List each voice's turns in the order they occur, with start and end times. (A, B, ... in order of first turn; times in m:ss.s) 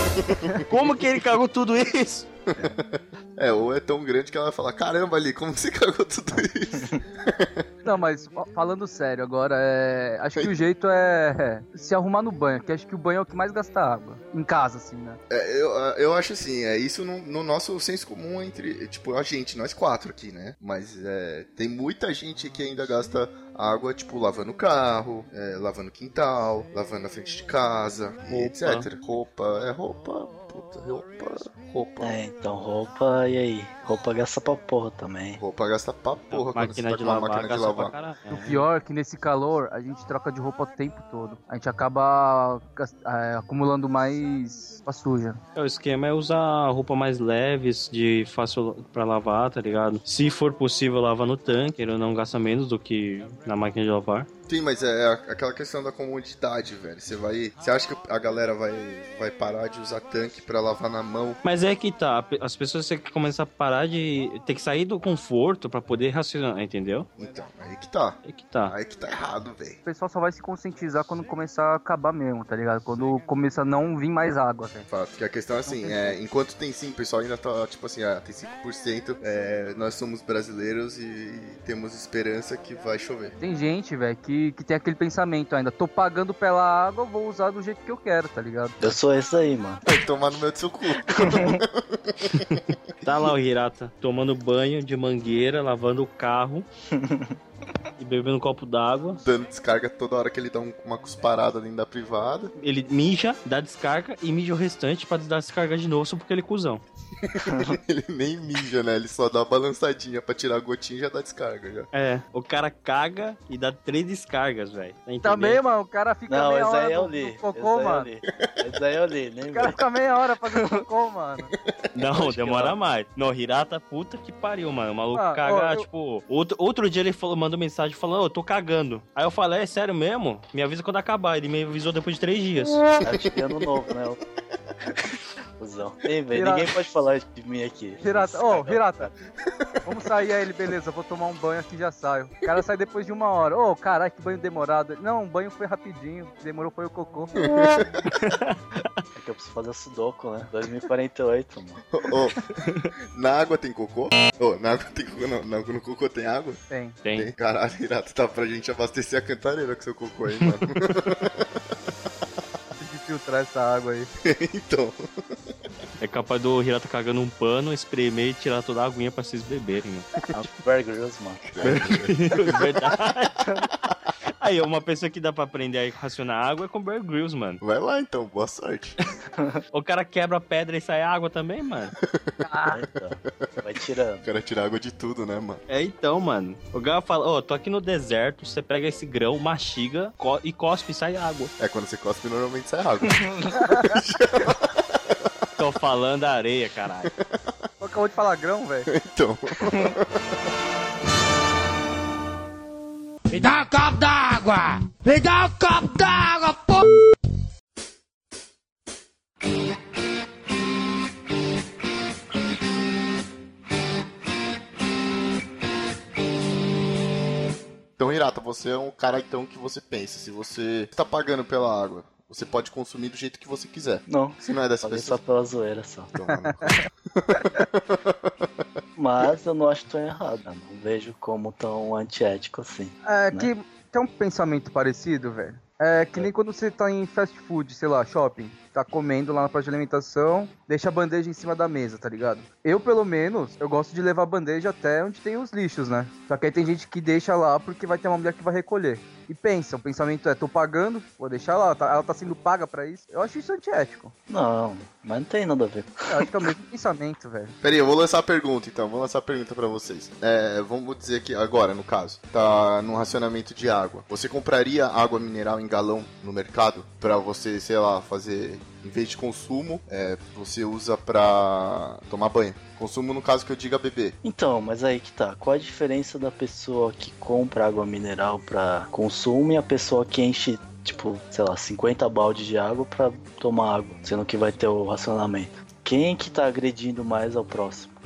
0:00.2-0:00.6 A
0:00.6-0:02.3 B
0:02.5-0:07.6 A
0:07.8-0:15.2 C
0:15.3-0:32.2 A
0:28.3-0:28.9 B
0:32.0-0:35.4 D
0:35.4-0:37.9 A
0:36.3-0:38.6 B
0:38.4-0:45.4 C
0:45.5-0:54.3 B
0:54.5-1:01.4 A
1:01.4-1:07.1 B
1:07.2-1:09.8 A
1:08.2-1:08.8 B
1:09.8-1:14.9 C
1:14.9-1:23.4 A
1:15.6-1:16.2 C
1:23.4-1:28.8 C
1:28.8-1:29.8 D
1:29.8-1:32.7 A
1:31.1-1:31.6 D
1:32.5-1:36.7 B
1:36.9-1:37.4 D
1:38.0-1:39.2 B
1:39.2-1:42.5 A
1:42.6-1:46.8 B
1:47.2-1:51.9 A
1:47.4-1:47.8 D
1:51.9-1:55.6 B
1:55.2-1:58.1 C
1:56.3-1:59.8 D
1:59.5-2:01.5 C
2:00.5-2:00.8 D
2:02.0-2:02.2 A
2:02.0-2:12.9 B
2:02.2-2:02.8 D
2:05.1-2:05.8 C
2:13.0-2:14.2 D
2:15.6-2:19.1 D
2:16.3-2:16.7 C
2:18.0-2:19.1 C
2:19.8-2:27.3 C
2:27.4-2:28.1 A
2:28.1-2:28.5 B
2:29.1-2:31.8 D
2:31.9-2:32.5 A
2:33.1-2:36.6 A
2:36.7-2:37.0 C
2:37.0-2:37.3 B
2:37.1-2:41.6 A
2:40.3-2:40.6 B
2:42.8-2:44.1 C
2:44.2-2:45.1 A
2:46.0-2:50.5 B
2:50.5-2:51.5 D
2:51.5-2:52.9 A
2:51.6-2:53.7 B
2:54.4-2:57.6 B
2:57.6-2:59.0 A
2:59.7-3:02.0 B
3:02.0-3:02.4 A
3:02.4-3:02.8 C
3:02.7-3:04.2 D
3:04.2-3:05.6 A
3:05.7-3:11.5 B
3:11.6-3:15.3 A
3:13.1-3:13.4 D
3:15.6-3:17.1 B
3:17.1-3:17.5 A
3:17.8-3:18.9 C
3:18.9-3:20.2 A
3:23.3-3:27.1 E
3:38.0-3:45.2 A
3:44.1-3:46.1 D
3:46.1-3:48.5 A
3:49.0-3:53.5 D
3:53.0-4:14.1 C
4:14.3-4:16.5 D
4:16.1-4:17.6 C
4:17.6-4:34.2 A
4:34.2-4:47.9 D